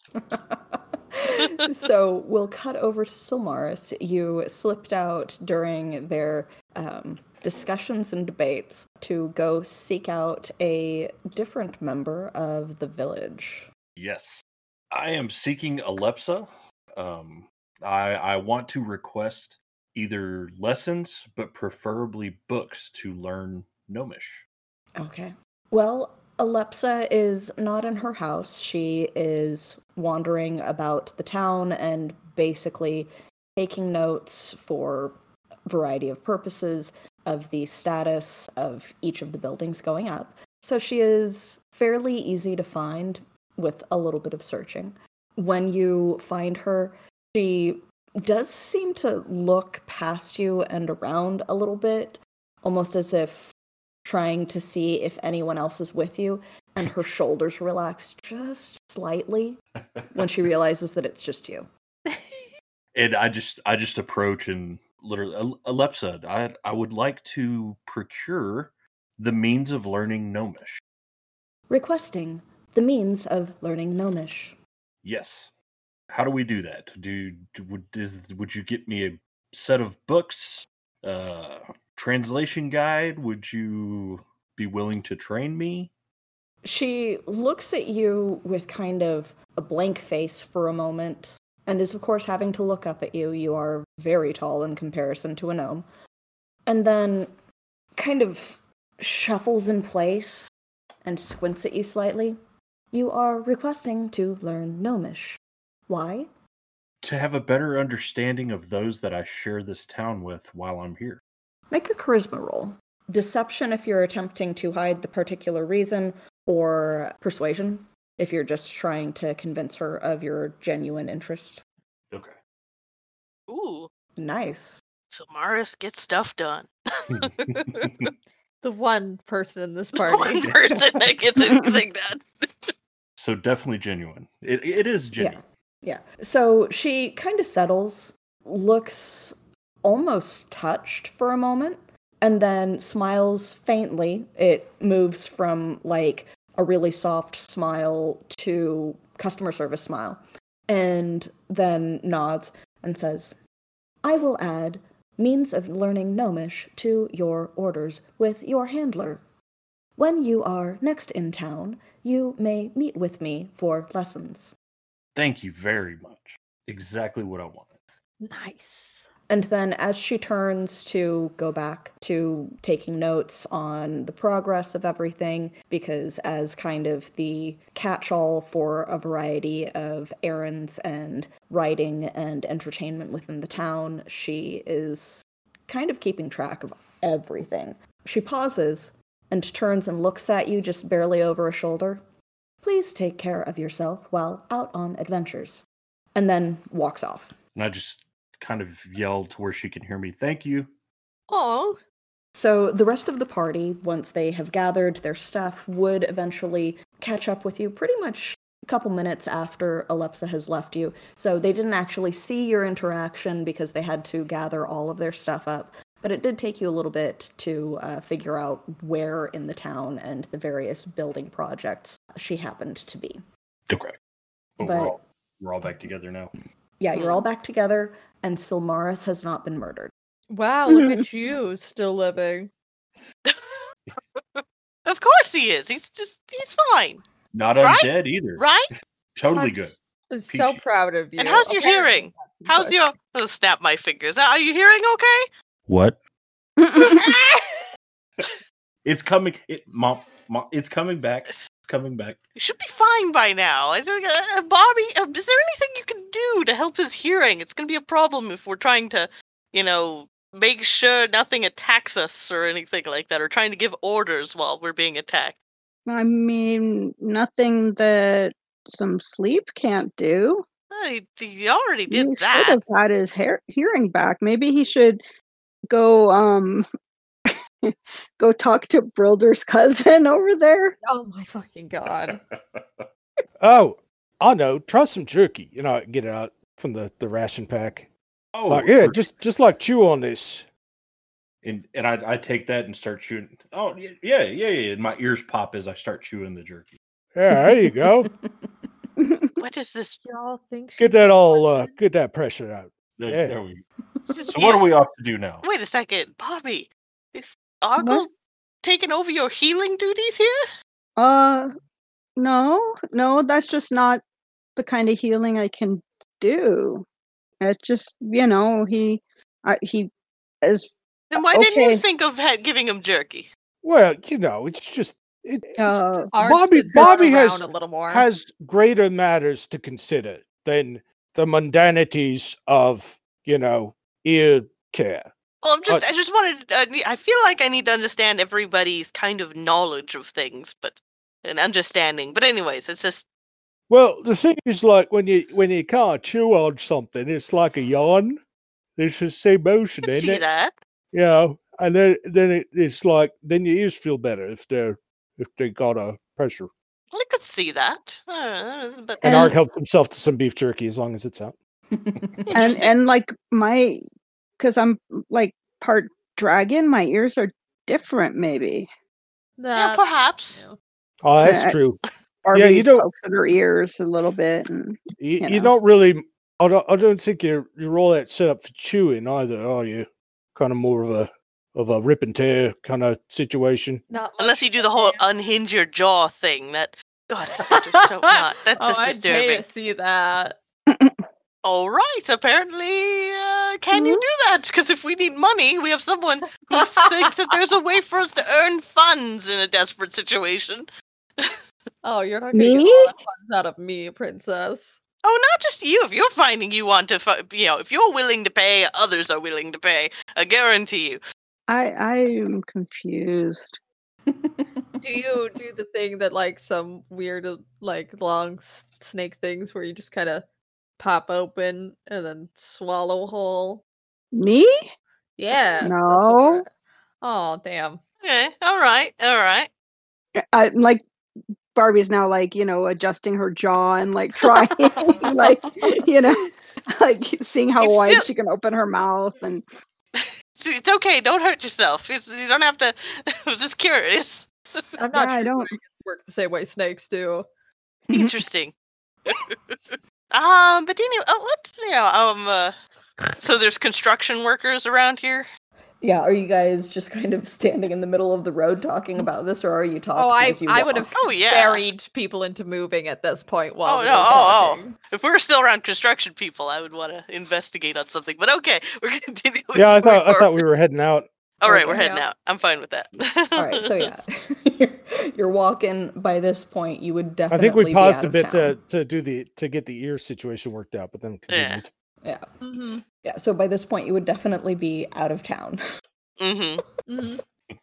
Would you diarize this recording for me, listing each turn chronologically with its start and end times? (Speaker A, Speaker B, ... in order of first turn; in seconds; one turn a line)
Speaker A: 0.2-13.7
Speaker B: 14.0-24.4
Speaker A: 25.0-35.1
Speaker A: 35.7-53.5
Speaker A: 54.0-59.6
Speaker A: 60.1-61.7
Speaker C: 62.1-62.4
Speaker B: 62.9-70.8
Speaker A: 71.7-74.6
Speaker B: 75.0-75.5
Speaker B: 76.1-85.9
Speaker A: 86.6-95.9
Speaker A: 96.7-97.3
Speaker A: 98.0-100.5
Speaker A: 101.0-102.4
Speaker A: 102.9-106.3
Speaker B: 107.0-111.2
Speaker A: 111.7-121.6
Speaker B: 122.1-122.4
Speaker D: 123.5-123.9
Speaker A: 124.2-124.8
Speaker D: 125.1-127.9
Speaker B: 127.1-128.1
Speaker C: 128.6-130.4
Speaker D: 129.9-132.7
Speaker B: 130.4-130.8
Speaker E: 131.4-131.7
Speaker B: 133.2-135.4
Speaker A: 135.2-153.4
Speaker A: 154.0-159.2
Speaker A: 160.0-164.5
Speaker B: 165.2-167.7
Speaker C: 168.2-169.1
Speaker A: 169.3-192.0
Speaker A: 192.6-197.4
Speaker B: 197.6-200.7
Speaker C: 201.3-201.8
Speaker A: 202.3-223.2
Speaker B: 223.7-224.0
Speaker B: 224.6-226.3
Speaker A: 224.6-225.0
Speaker A: 226.8-229.9
Speaker D: 226.9-227.2
Speaker C: 230.3-232.5
Speaker E: 230.7-230.9
Speaker D: 233.3-233.6
Speaker D: 234.2-237.0
Speaker B: 237.3-238.5
Speaker D: 237.6-238.7
Speaker B: 239.2-239.8
Speaker C: 239.3-242.9
Speaker B: 240.3-240.6
Speaker D: 241.2-245.3
Speaker B: 245.7-246.0
Speaker E: 246.6-247.1
Speaker D: 246.8-247.1
Speaker B: 248.8-252.2
Speaker D: 252.4-265.4
Speaker E: 265.9-270.4
Speaker D: 270.7-272.6
Speaker E: 271.9-275.0
Speaker E: 275.7-276.7
Speaker E: 277.7-280.8
Speaker C: 280.8-282.2
Speaker B: 282.0-282.8
Speaker F: 283.4-287.9
Speaker B: 288.3-289.1
Speaker F: 288.5-290.5
Speaker B: 291.4-296.7
Speaker F: 297.1-298.1
Speaker A: 297.8-298.7
Speaker E: 299.0-299.3
Speaker D: 299.4-300.0
Speaker C: 300.1-301.7
Speaker F: 300.8-303.4
Speaker B: 303.0-303.6
Speaker B: 304.2-305.4
Speaker D: 304.3-304.7
Speaker D: 305.4-308.1
Speaker E: 307.8-308.1
Speaker D: 308.6-310.4
Speaker E: 311.0-311.5
Speaker E: 312.2-314.0
Speaker E: 314.6-316.8
Speaker E: 317.4-319.9
Speaker E: 320.4-321.8
Speaker D: 321.1-323.3
Speaker F: 323.6-335.1
Speaker E: 325.6-326.1
Speaker C: 326.1-328.1
Speaker E: 326.8-327.1
Speaker D: 335.4-343.1
Speaker F: 343.7-348.2
Speaker F: 348.8-350.2
Speaker D: 349.8-350.5
Speaker F: 350.9-356.5
Speaker D: 356.9-359.3
Speaker F: 359.0-361.4
Speaker E: 359.0-359.4
Speaker A: 361.7-362.3
Speaker D: 362.3-362.7
Speaker E: 362.3-363.8
Speaker E: 364.4-368.7
Speaker C: 369.4-370.6
Speaker D: 369.6-370.4
Speaker F: 371.0-371.8
Speaker E: 371.2-371.6
Speaker E: 372.2-375.5
Speaker F: 372.3-372.9
Speaker F: 375.0-383.8
Speaker C: 383.9-385.1
Speaker D: 384.2-389.4
Speaker C: 387.4-390.4
Speaker E: 390.7-391.0
Speaker D: 391.4-400.7
Speaker E: 393.7-394.0
Speaker C: 396.6-397.1
Speaker C: 401.8-404.8
Speaker E: 402.3-402.9
Speaker D: 405.0-411.0
Speaker E: 411.5-413.6
Speaker A: 414.1-414.8
Speaker C: 414.8-420.2
Speaker C: 420.8-423.6
Speaker E: 424.1-424.5
Speaker C: 425.2-426.5
Speaker E: 425.6-426.4
Speaker C: 427.0-427.8
Speaker D: 428.0-429.5
Speaker E: 430.3-430.8
Speaker E: 431.6-439.4
Speaker D: 437.6-438.1
Speaker D: 439.9-444.3
Speaker C: 444.8-447.2
Speaker E: 444.9-445.5
Speaker D: 447.9-448.5
Speaker D: 449.1-452.6
Speaker D: 453.2-455.3
Speaker A: 455.8-461.0
Speaker C: 459.9-464.7
Speaker D: 461.0-461.7
Speaker D: 463.6-470.5
Speaker A: 464.0-464.5
Speaker F: 469.5-471.1
Speaker D: 471.4-473.9
Speaker A: 471.5-471.8
Speaker C: 471.5-472.1
Speaker A: 473.4-478.6
Speaker F: 477.3-481.7
Speaker D: 481.3-481.6
Speaker C: 482.4-482.8
Speaker A: 483.0-485.6
Speaker D: 486.2-486.6
Speaker C: 486.9-487.2